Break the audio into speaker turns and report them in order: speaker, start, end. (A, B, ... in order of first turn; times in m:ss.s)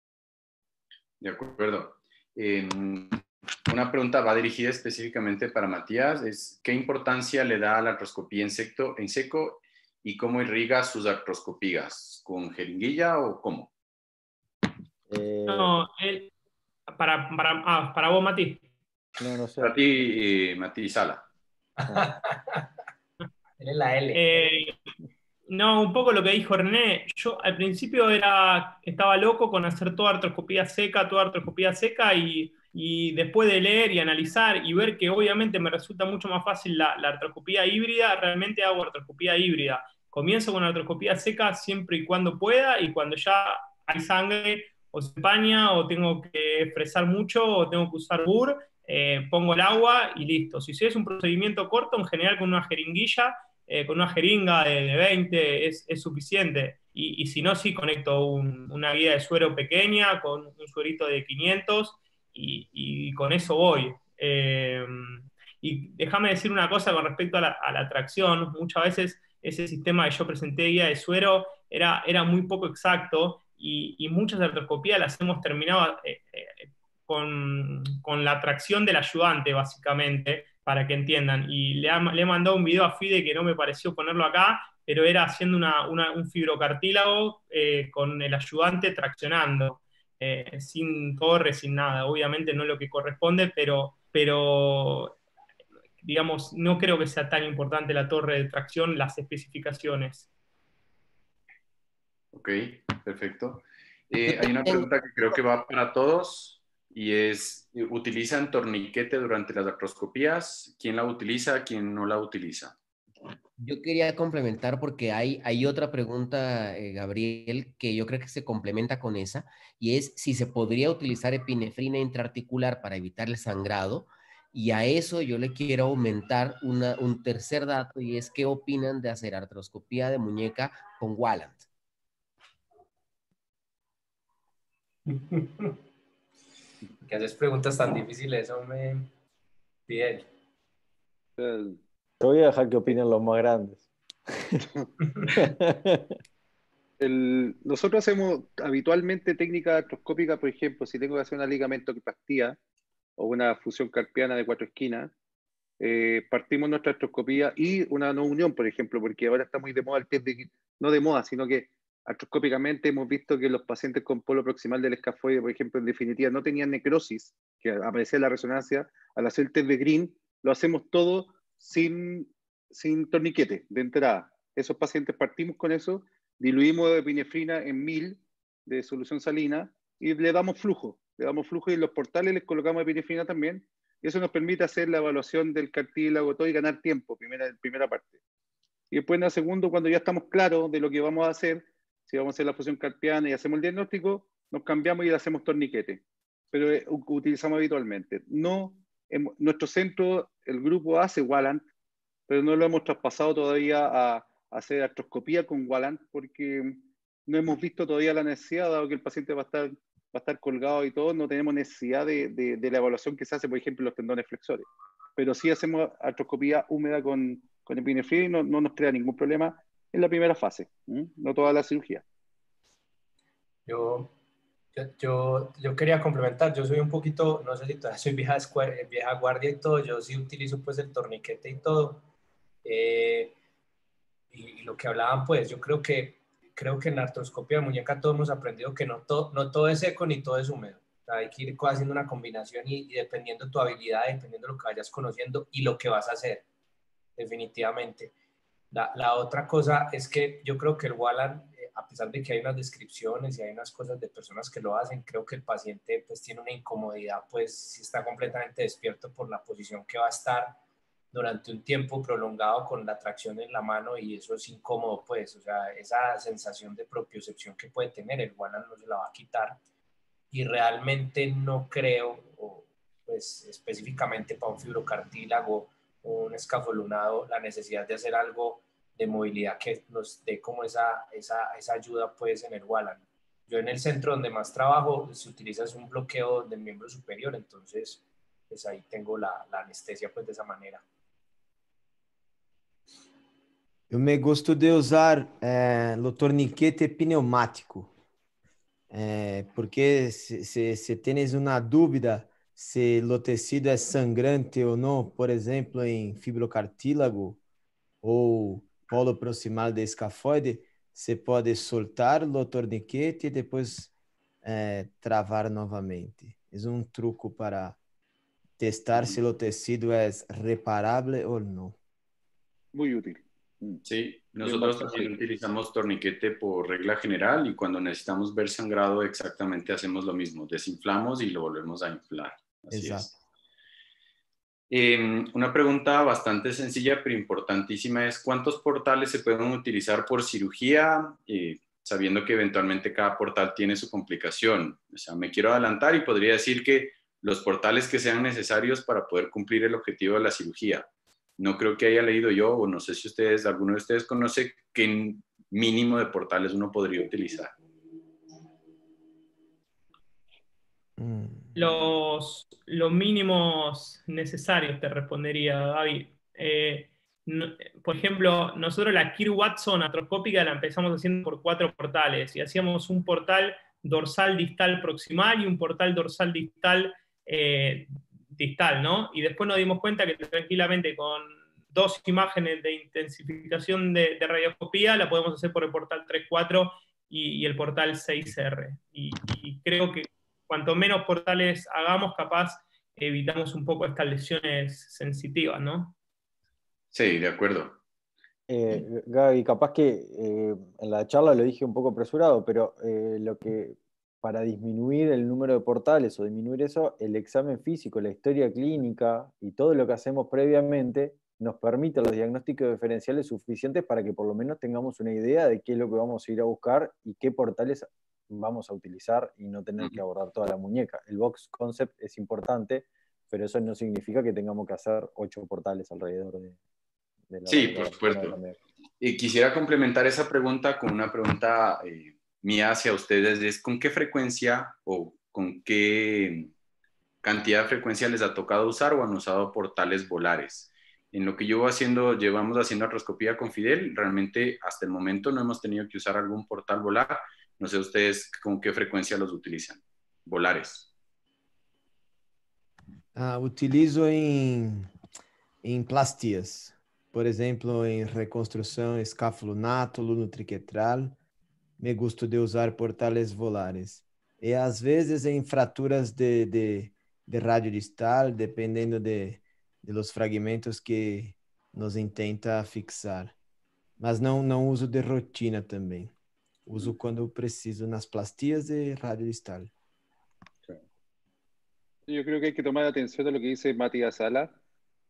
0:01.2-0:13.7 A
0:15.1-0:15.7 B
0:15.5-0:16.3 C
0:16.9-0:18.6 C
0:19.2-0:19.9 B
0:19.6-0:21.3 A
0:21.8-0:22.7 D
0:23.6-0:24.6 D
0:24.1-0:24.8 C
0:25.5-1:35.2 C
1:36.0-1:40.3 C
1:42.3-1:52.8 A
1:44.3-1:44.8 E
1:53.6-2:11.7 E
2:15.1-2:15.8 D
2:17.0-2:19.1 D
2:19.9-2:20.3 D
2:21.4-2:21.8 F
2:22.2-2:23.9 B
2:25.4-2:26.0 B
2:27.0-2:32.6 F
2:33.2-2:35.1 F
2:35.8-3:08.2 F
3:08.9-3:21.6 F
3:22.3-3:42.0 F
3:43.7-3:44.1 D
3:44.8-3:52.0 D
3:52.6-3:53.4 D
3:54.3-4:06.4 D
4:07.2-4:08.1 D
4:08.7-4:20.6 D
4:21.1-4:29.6 D
4:30.3-4:50.8 D
4:53.9-4:57.9 G
4:58.9-5:07.4 G
5:08.0-5:13.9 G
5:14.4-5:17.8 G
5:18.6-5:21.8 G
5:18.9-5:19.2 A
5:22.7-5:23.8 F
5:23.8-5:33.1 A
5:24.4-5:25.2 F
5:32.7-5:33.1 G
5:34.7-5:57.6 A
6:01.0-6:01.5 G
6:01.6-6:36.0 C
6:36.9-6:37.8 A
6:38.5-7:06.6 B
7:07.3-7:08.6 B
7:07.5-7:08.4 A
7:09.0-7:16.5 A
7:17.2-7:30.9 A
7:33.2-7:34.9 G
7:35.6-7:41.2 G
7:41.8-7:53.3 G
7:54.0-7:56.1 G
7:56.7-7:59.7 G
8:02.1-8:04.6 F